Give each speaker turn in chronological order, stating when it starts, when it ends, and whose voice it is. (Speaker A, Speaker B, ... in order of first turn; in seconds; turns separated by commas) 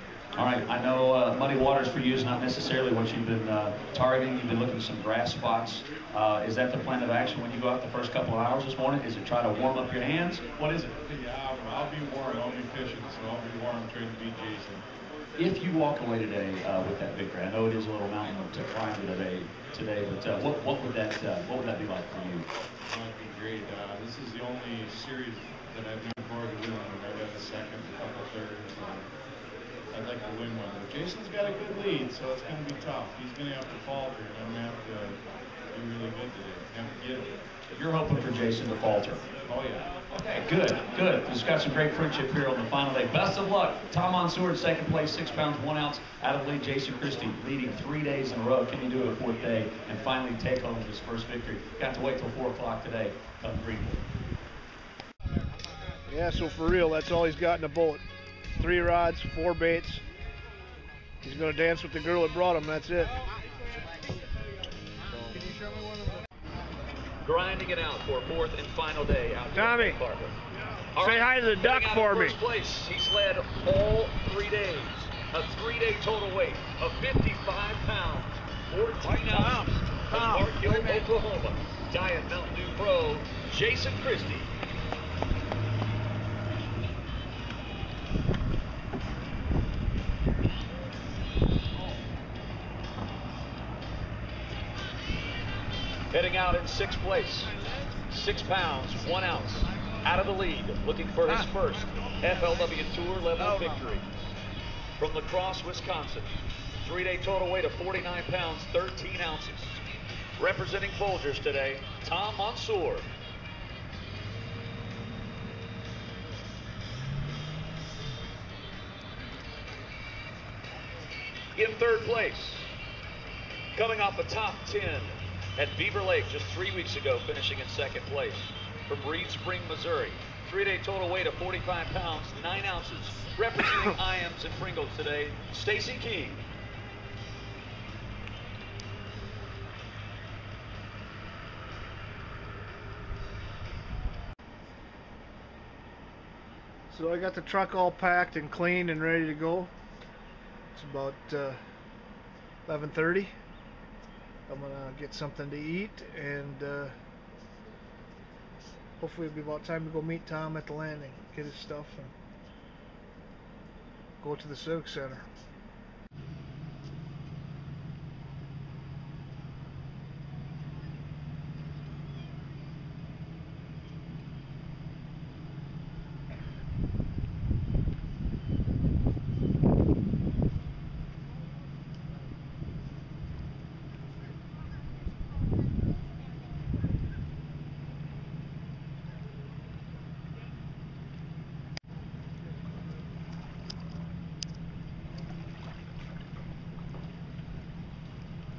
Speaker A: 0.3-10.9, Speaker B: 11.0-14.8, Speaker A: 15.3-22.4, Speaker B: 22.9-29.1, Speaker B: 29.9-35.2, Speaker B: 35.7-37.4, Speaker A: 37.7-39.2, Speaker B: 39.5-39.9, Speaker A: 40.1-54.0, Speaker C: 56.1-58.0, Speaker C: 58.6-60.0, Speaker C: 61.2-63.1, Speaker A: 67.2-70.3, Speaker C: 69.5-70.0, Speaker A: 70.9-84.5, Speaker C: 71.0-72.3, Speaker A: 96.1-97.5, Speaker A: 98.1-104.0, Speaker A: 105.0-109.8, Speaker A: 110.4-113.1, Speaker A: 121.5-122.7, Speaker A: 123.7-136.4, Speaker C: 146.9-149.7, Speaker C: 150.7-151.6, Speaker C: 152.7-153.3, Speaker C: 154.5-156.9, Speaker C: 159.0-162.1, Speaker C: 164.2-165.2